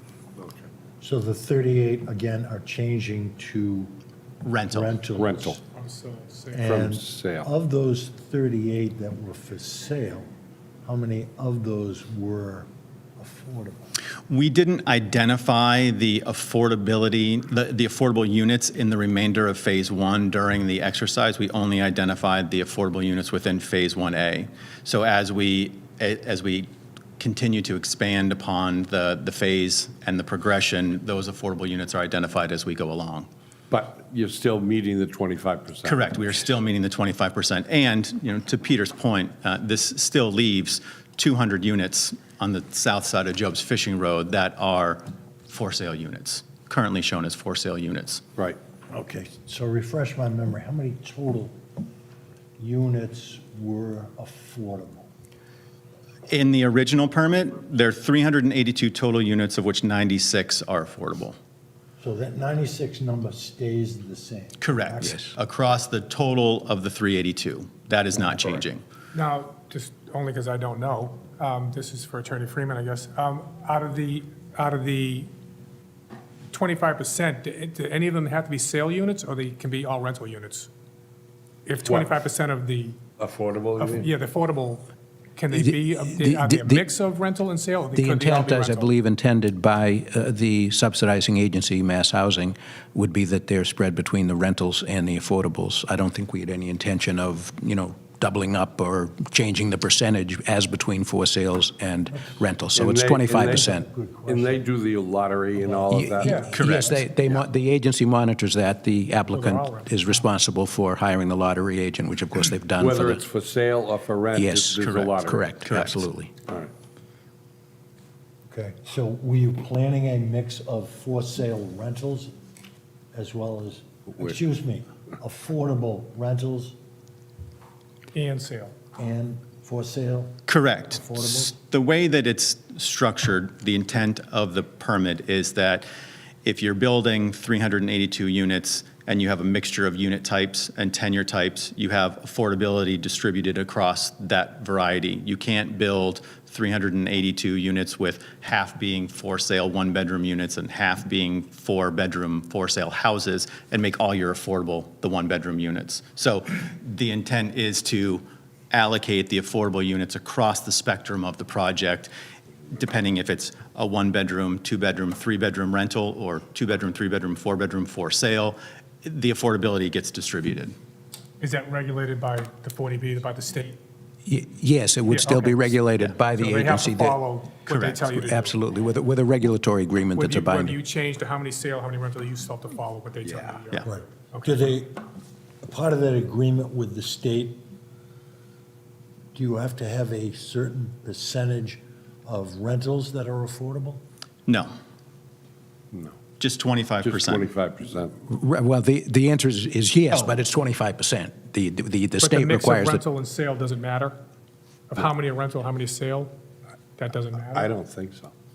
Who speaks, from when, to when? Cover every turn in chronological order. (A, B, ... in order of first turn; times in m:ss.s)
0:00.4-0:00.7 A
0:01.0-0:03.9 B
0:04.4-0:05.1 C
0:04.7-0:05.6 B
0:05.2-0:05.6 A
0:05.7-0:06.8 D
0:06.5-0:10.3 B
0:06.6-0:07.5 A
0:10.8-0:13.9 B
0:14.3-0:33.3 C
0:33.7-0:36.2 A
0:35.8-0:48.2 C
0:48.9-0:51.6 B
0:52.6-0:55.1 B
0:56.3-1:01.4 C
1:02.0-1:05.3 B
1:04.6-1:08.8 C
1:05.0-1:05.3 E
1:09.1-1:15.3 D
1:16.5-1:20.7 D
1:21.7-1:23.0 D
1:21.9-1:22.2 A
1:23.2-1:24.1 A
1:23.8-1:28.9 D
1:25.5-1:26.8 E
1:28.0-1:43.9 E
1:42.1-1:42.4 B
1:42.7-1:43.7 A
1:43.3-1:44.7 B
1:44.3-1:46.5 A
1:45.6-1:47.0 B
1:45.9-1:53.2 E
1:46.2-1:46.5 D
1:46.5-1:47.0 C
1:49.3-1:50.1 D
1:52.8-1:55.5 A
1:54.3-1:56.3 E
1:54.8-1:56.0 C
1:58.5-2:02.3 B
2:03.1-2:06.8 B
2:08.1-2:08.8 D
2:09.0-2:11.5 B
2:10.5-2:15.9 C
2:16.4-2:42.1 C
2:42.7-2:50.8 C
2:51.4-2:53.8 D
2:54.3-2:57.2 E
2:55.1-2:55.8 D
2:56.3-2:58.6 D
2:57.7-2:58.0 C
2:58.0-3:00.8 E
3:00.1-3:04.7 D
3:03.9-3:05.1 B
3:05.6-3:07.6 B
3:09.3-3:14.0 B
3:15.9-3:16.2 A
3:16.4-3:17.5 C
3:17.0-3:18.2 A
3:18.3-3:23.0 E
3:22.2-3:24.2 D
3:24.9-3:26.3 D
3:27.0-3:27.7 D
3:27.5-3:28.3 A